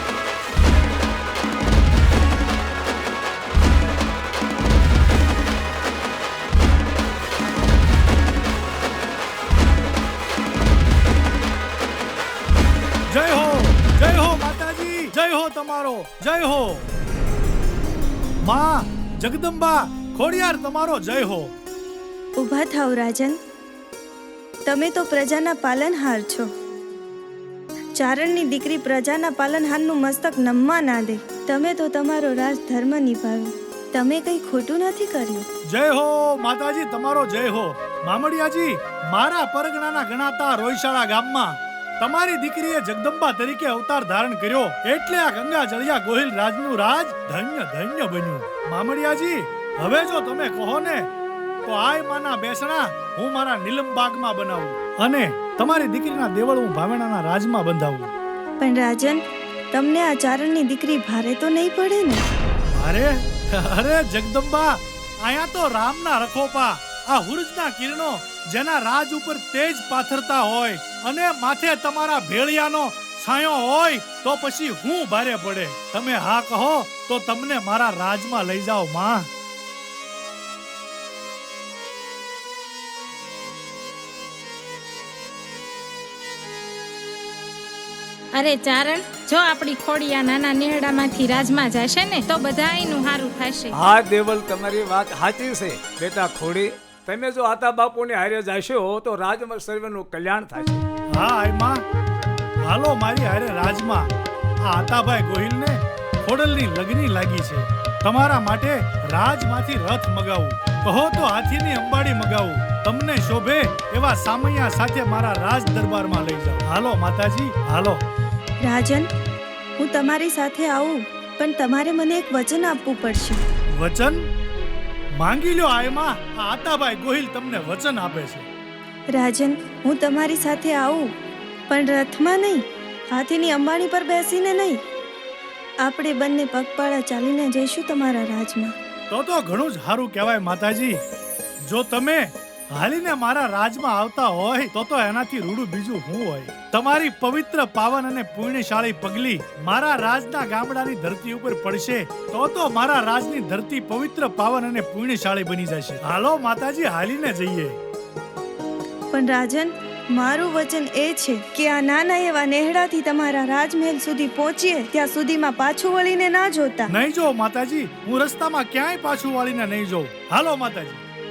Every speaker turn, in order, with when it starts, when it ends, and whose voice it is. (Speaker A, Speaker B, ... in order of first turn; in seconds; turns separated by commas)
Speaker A: 13.1-16.9, Speaker A: 18.4-21.5, Speaker B: 22.4-23.4, Speaker B: 24.6-26.5, Speaker B: 27.9-35.5, Speaker A: 35.7-51.1, Speaker A: 51.6-58.1, Speaker B: 58.6-62.2, Speaker A: 62.7-79.3, Speaker C: 88.3-93.7, Speaker D: 93.8-100.8, Speaker A: 101.1-101.8, Speaker A: 102.7-104.1, Speaker A: 104.6-118.0, Speaker B: 118.6-119.1, Speaker B: 119.8-123.4, Speaker A: 123.7-124.3, Speaker A: 125.2-128.4, Speaker B: 129.1-131.1, Speaker B: 131.7-134.8, Speaker B: 135.8-138.7, Speaker A: 139.1-141.0, Speaker A: 141.7-157.8, Speaker B: 159.1-166.9, Speaker A: 166.9-171.0